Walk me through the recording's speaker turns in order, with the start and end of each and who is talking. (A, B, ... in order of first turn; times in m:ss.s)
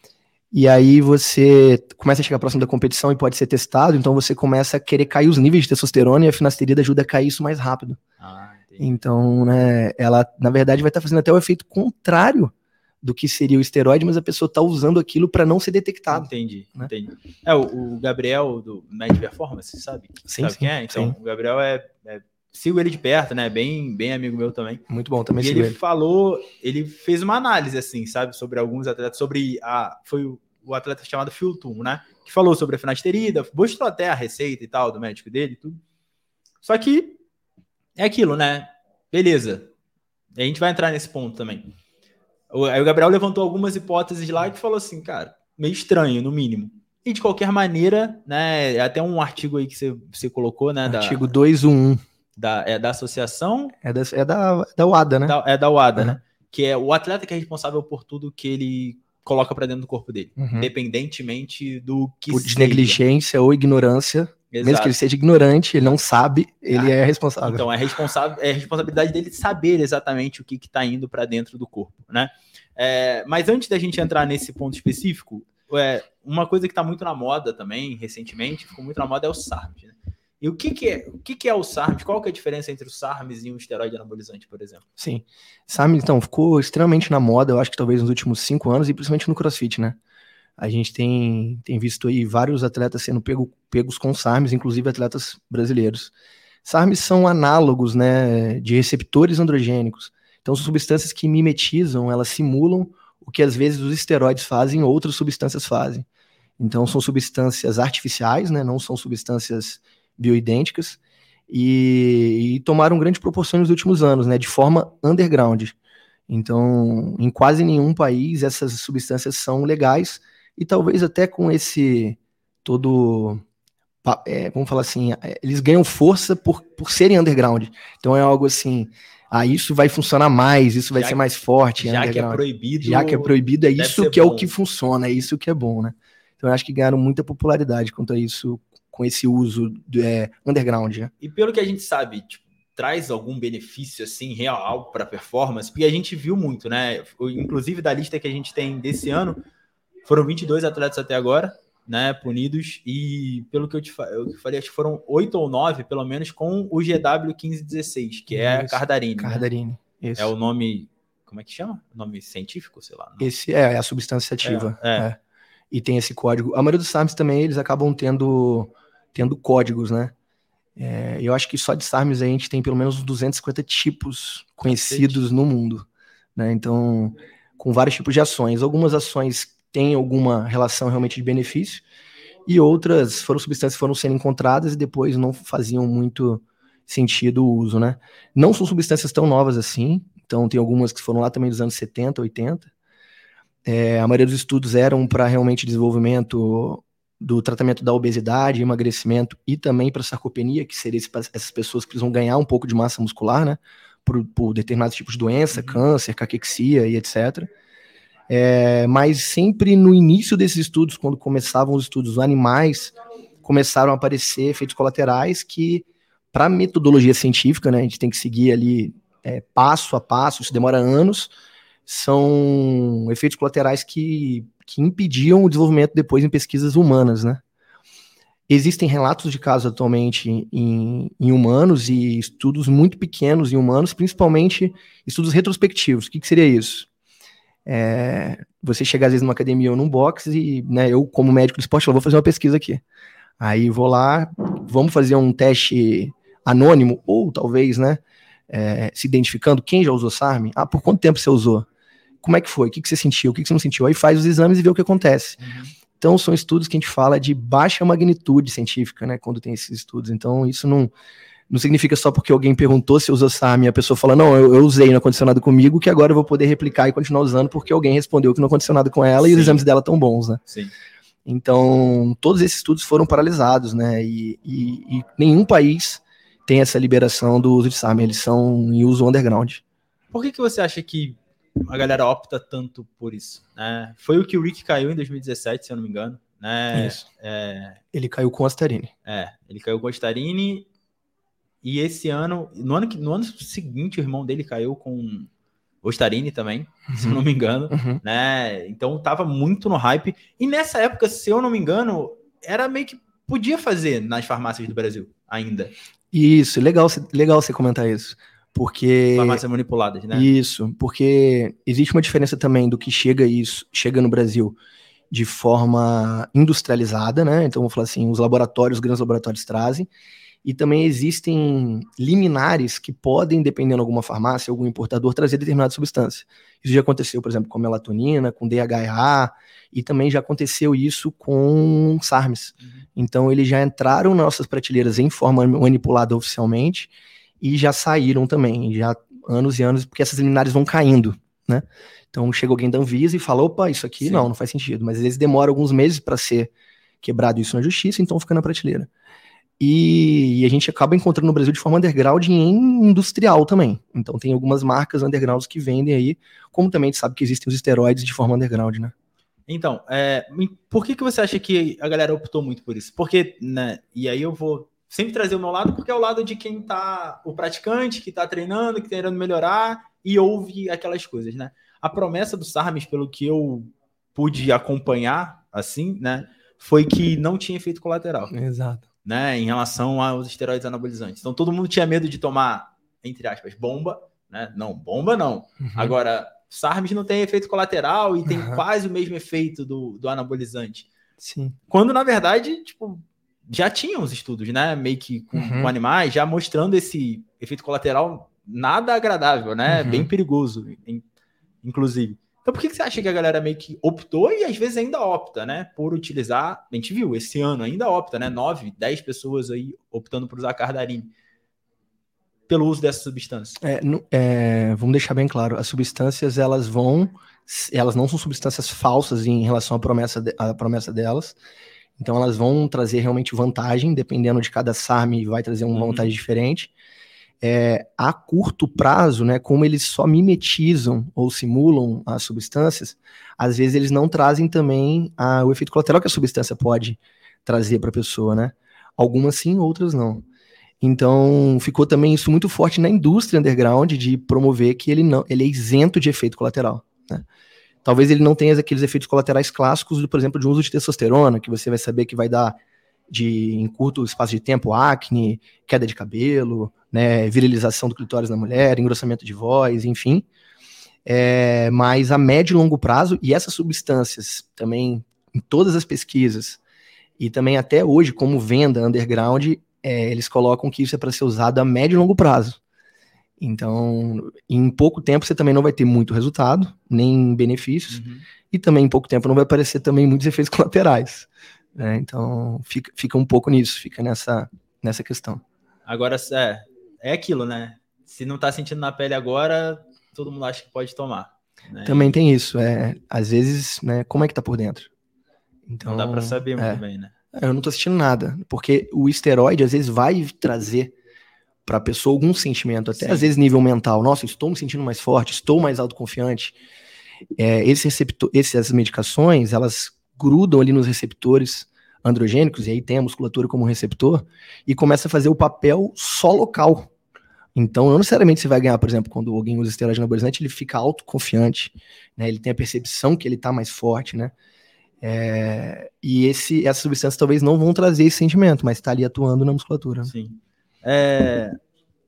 0:00.5-0:08.0 A
0:08.2-0:09.0 B
0:08.8-0:16.9 A
0:16.1-0:24.8 B
0:20.3-0:21.1 A
0:24.9-0:25.8 A
0:25.4-0:35.8 B
0:36.6-0:37.2 B
0:38.0-0:39.7 B
0:40.4-0:41.7 B
0:42.5-0:51.2 B
0:50.8-0:52.0 A
0:52.4-0:53.7 B
0:53.8-0:55.3 A
0:55.2-1:03.0 B
1:00.4-1:00.7 A
1:02.3-1:07.6 A
1:04.5-1:05.0 B
1:06.7-1:24.8 B
1:25.0-1:30.0 A
1:30.6-1:36.1 A
1:36.6-1:46.0 A
1:46.6-1:55.8 A
1:56.3-2:03.4 A
2:04.0-2:21.1 A
2:10.9-2:11.2 B
2:11.8-2:14.5 B
2:21.2-2:29.4 B
2:30.0-2:39.4 B
2:38.3-2:40.3 A
2:40.2-2:43.3 B
2:43.2-2:45.2 A
2:44.4-2:45.1 B
2:45.7-2:50.1 A
2:50.8-2:55.8 A
2:54.7-2:55.2 B
2:56.4-3:01.8 A
3:02.4-3:12.7 A
3:13.6-3:27.5 A
3:25.5-3:25.8 B
3:28.3-3:41.3 A
3:41.8-3:47.4 A
3:48.5-3:56.9 A
3:57.6-4:02.8 A
4:03.4-4:11.7 A
4:12.2-4:15.4 A
4:15.4-4:15.7 B
4:16.0-4:20.9 A
4:21.5-4:30.4 A
4:29.2-4:29.6 B
4:31.2-4:39.6 A
4:40.1-4:47.8 B
4:46.7-4:47.0 A
4:47.9-4:48.9 A
4:49.0-4:50.7 B
4:51.6-4:55.3 B
4:55.8-5:05.7 B
4:56.9-4:58.0 A
5:06.1-5:09.4 A
5:09.1-5:10.3 B
5:10.1-5:14.6 A
5:15.1-5:19.9 A
5:20.4-5:46.5 A
5:44.0-5:44.3 B
5:47.0-5:48.9 A
5:49.6-5:58.9 A
5:59.5-6:18.3 B
6:18.3-6:18.8 A
6:19.0-6:30.9 B
6:25.6-6:25.9 A
6:28.3-6:28.6 A
6:31.2-6:31.5 A
6:31.7-6:41.0 B
6:35.3-6:35.7 A
6:39.7-6:40.1 A
6:41.6-6:51.1 B
6:52.5-6:53.6 B
6:53.6-7:01.4 A
7:02.0-7:06.7 A
7:05.7-7:06.1 B
7:07.4-7:20.2 A
7:20.8-7:27.2 A
7:27.8-7:32.5 A
7:33.1-7:40.2 A
7:41.0-7:46.6 A
7:47.2-7:52.6 A
7:53.4-8:05.4 A
7:57.9-7:58.2 B
8:05.8-8:12.2 B
8:11.8-8:14.9 A
8:15.7-8:16.8 A
8:15.8-8:17.1 B
8:17.3-8:20.9 A
8:21.6-8:26.6 A
8:22.9-8:23.3 B
8:27.4-8:36.9 A
8:37.5-8:44.3 A
8:45.0-8:50.1 A
8:50.0-8:51.6 B